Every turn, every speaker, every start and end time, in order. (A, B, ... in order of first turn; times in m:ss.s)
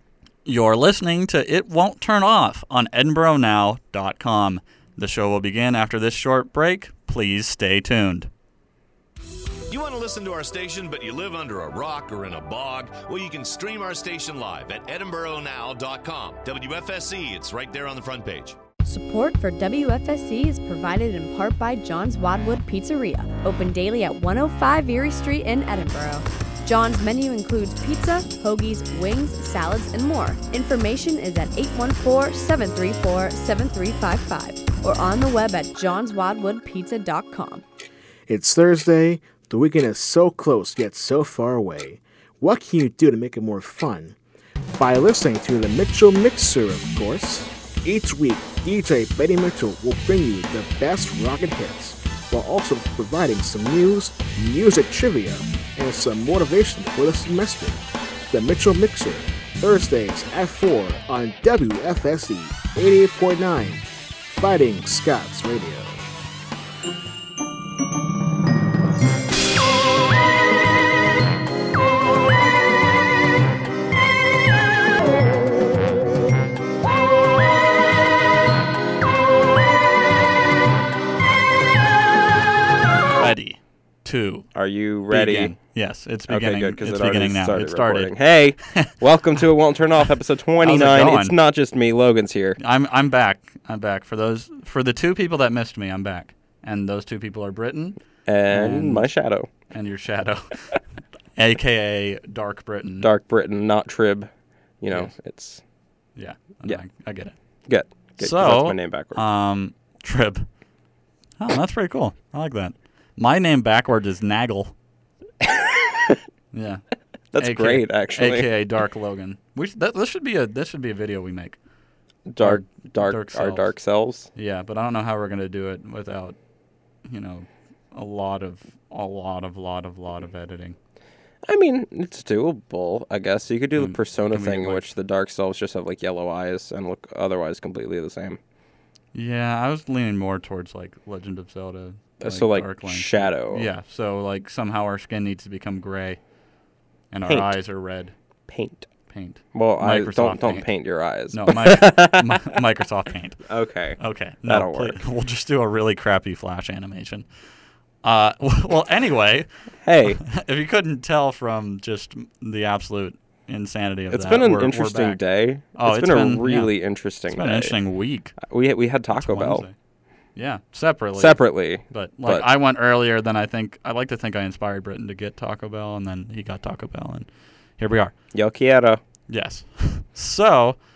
0:00.4-0:08.3 A
0:09.7-0:18.6 B
0:18.8-0:37.6 C
0:38.3-0:44.2 D
0:44.8-1:03.8 D
1:04.4-1:06.0 D
1:23.2-1:24.5 A
1:24.5-1:25.5 E
1:25.1-1:28.1 A
1:26.3-1:32.6 E
1:28.7-1:29.0 A
1:30.6-1:31.4 A
1:32.6-1:38.0 A
1:38.2-1:39.5 E
1:38.5-1:39.0 A
1:39.7-1:40.8 A
1:41.4-1:43.1 A
1:43.0-1:44.3 E
1:44.8-1:45.6 E
1:46.2-1:47.4 A
1:47.7-1:49.2 E
1:48.2-1:50.5 A
1:51.4-1:54.7 A
1:55.4-1:56.2 E
1:56.5-1:56.8 A
1:57.3-1:58.5 E
1:57.4-2:01.6 A
2:02.3-2:04.3 E
2:02.4-2:03.7 A
2:04.3-2:06.4 A
2:07.1-2:10.8 A
2:11.4-2:18.4 E
2:13.8-2:14.9 A
2:19.1-2:26.2 A
2:22.2-2:23.7 E
2:27.1-2:28.1 A
2:27.2-2:27.5 E
2:28.5-2:28.9 E
2:29.1-2:30.6 A
2:29.5-2:32.6 E
2:31.3-2:33.4 A
2:33.4-2:35.0 E
2:34.0-2:37.2 A
2:38.0-2:39.5 A
2:39.8-2:40.2 E
2:40.1-2:45.2 A
2:44.1-2:47.8 E
2:45.7-2:46.7 A
2:47.3-2:48.4 A
2:48.4-2:49.6 E
2:49.1-2:49.7 A
2:50.4-2:58.1 A
2:51.2-2:52.4 E
2:58.3-2:59.0 E
2:59.3-3:00.8 A